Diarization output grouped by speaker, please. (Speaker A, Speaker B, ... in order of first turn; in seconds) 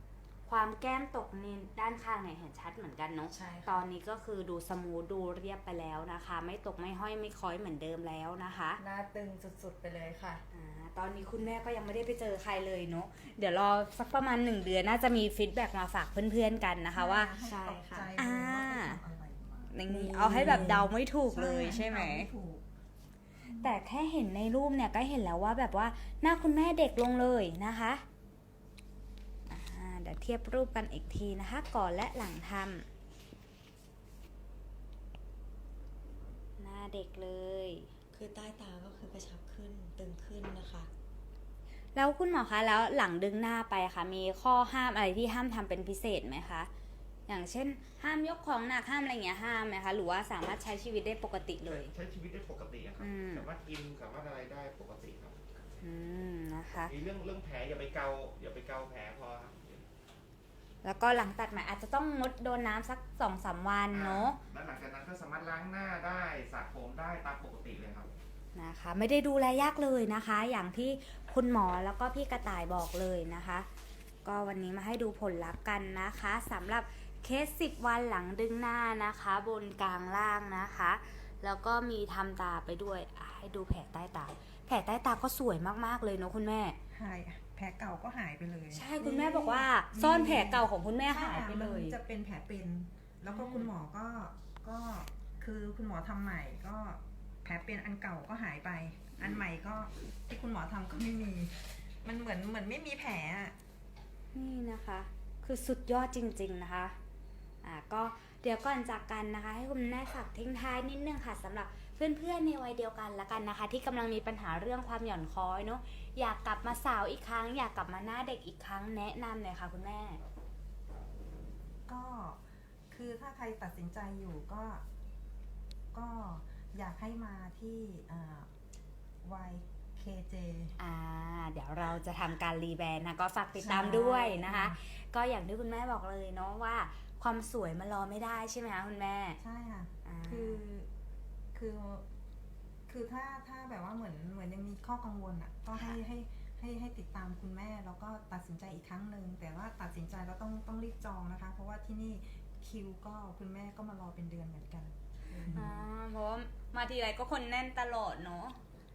Speaker A: 0.5-8.8, 10.5-17.3, 18.1-19.0, 19.7-22.3, 23.6-28.0, 29.5-32.9, 36.6-37.9, 41.9-46.7, 47.3-51.9, 53.0-53.5, 55.8-56.9, 60.8-64.4, 68.5-73.7, 74.2-86.8, 88.7-92.0, 93.3-93.7, 104.3-107.0, 107.6-120.2, 130.8-139.4, 140.0-140.6, 155.5-158.6
Speaker B: 3.3-3.8, 8.8-10.4, 17.4-18.1, 19.9-20.9, 38.1-40.9
Speaker C: 16.9-19.7, 20.3-22.6, 23.4-23.7, 86.9-103.5, 121.9-124.8, 125.9-128.5, 129.2-130.7, 133.6-134.8, 139.4-140.9, 141.5-142.0, 142.9-155.7
Speaker D: 51.6-55.4, 56.8-59.9, 63.9-68.1